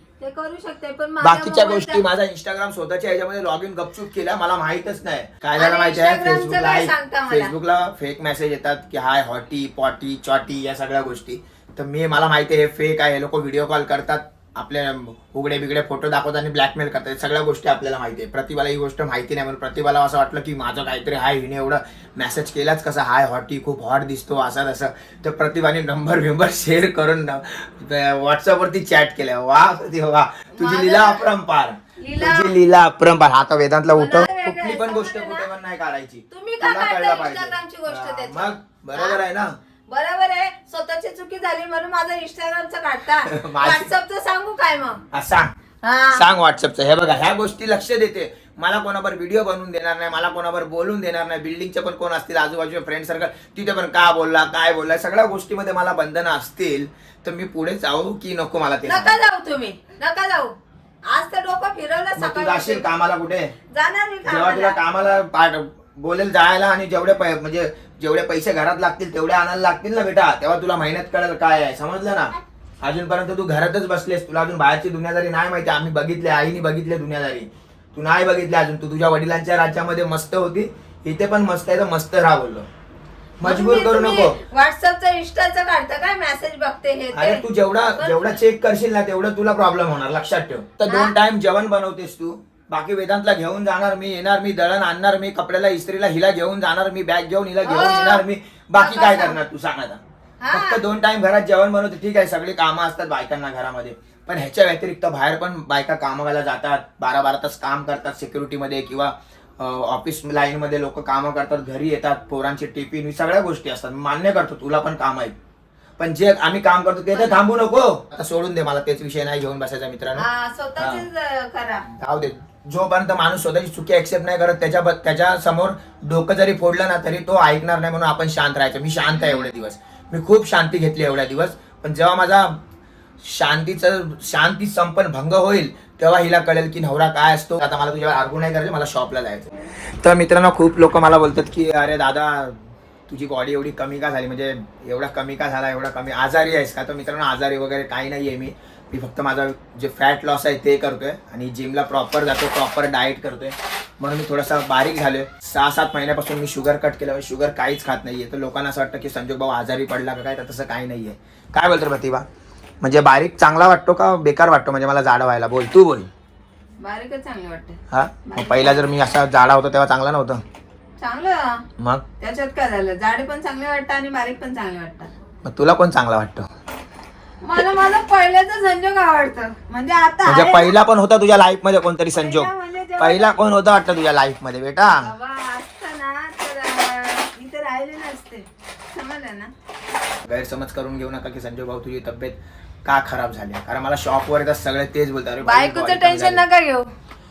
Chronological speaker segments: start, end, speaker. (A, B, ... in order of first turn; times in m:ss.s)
0:00.2-0:02.0 A
0:01.2-0:39.5 B
0:05.6-0:07.5 A
0:30.6-0:31.3 A
0:32.0-0:32.5 A
0:33.9-0:35.5 A
0:36.3-0:39.2 A
0:39.9-0:45.0 A
0:43.3-0:43.9 B
0:45.1-0:45.5 B
0:45.8-0:46.3 A
0:46.1-0:59.2 B
0:58.9-1:00.6 A
1:01.1-1:02.9 A
1:02.2-1:03.5 B
1:03.7-1:04.8 A
1:04.3-1:22.7 B
1:23.4-1:24.4 B
1:23.4-1:27.4 A
1:27.1-1:40.0 B
1:28.0-1:28.4 A
1:30.9-1:31.2 A
1:37.6-1:38.2 A
1:38.8-1:39.4 A
1:40.4-1:40.8 A
1:40.5-1:55.4 B
1:56.0-2:00.3 B
1:57.1-1:57.4 A
2:00.2-2:01.9 A
2:00.8-2:01.1 B
2:01.9-2:12.6 B
2:13.2-2:19.5 B
2:20.0-2:22.6 B
2:23.1-2:42.3 B
2:42.8-2:46.1 B
2:46.8-2:48.9 A
2:47.9-2:50.4 B
2:51.0-2:51.6 A
2:51.8-2:52.0 B
2:52.2-2:55.1 A
2:55.4-2:56.5 B
2:57.4-3:00.7 A
3:00.2-3:05.1 B
3:02.2-3:03.3 A
3:05.0-3:09.5 A
3:10.2-3:16.4 B
3:15.4-3:16.9 A